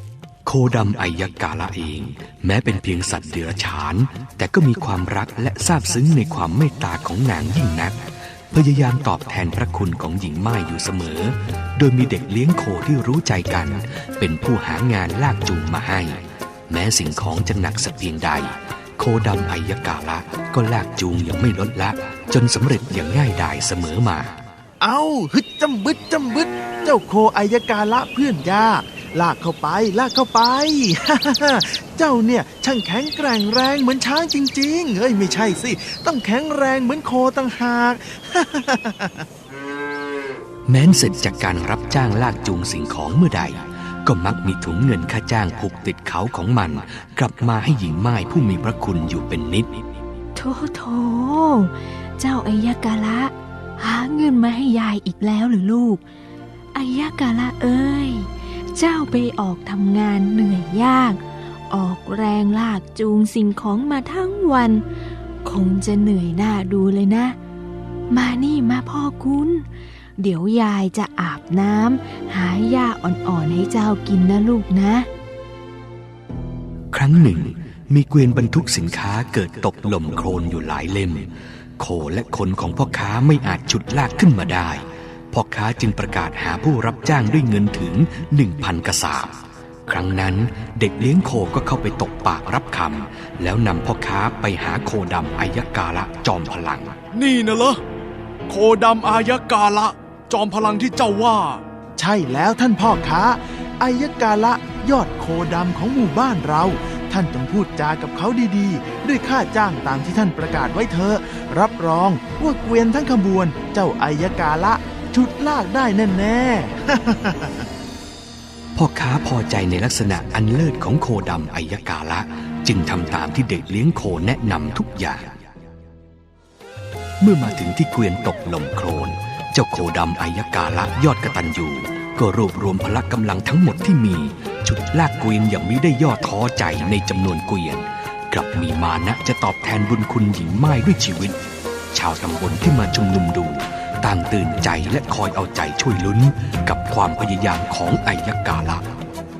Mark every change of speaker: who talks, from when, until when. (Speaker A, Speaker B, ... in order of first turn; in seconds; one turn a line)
Speaker A: 0.4-8.0
Speaker A: 8.5-16.2
Speaker A: 16.7-24.3
Speaker B: 24.8-39.2
Speaker A: 40.7-49.7
Speaker C: 50.3-56.0
Speaker C: 56.7-64.8
Speaker C: 65.4-67.4
Speaker C: 68.1-75.1
Speaker A: 76.9-81.3
Speaker A: 81.8-89.3
Speaker A: 89.9-96.9
Speaker D: 97.1-97.8
Speaker D: 98.5-101.6
Speaker B: 102.0-117.7
Speaker A: 118.8-125.3
Speaker A: 127.2-141.4
Speaker A: 141.9-148.8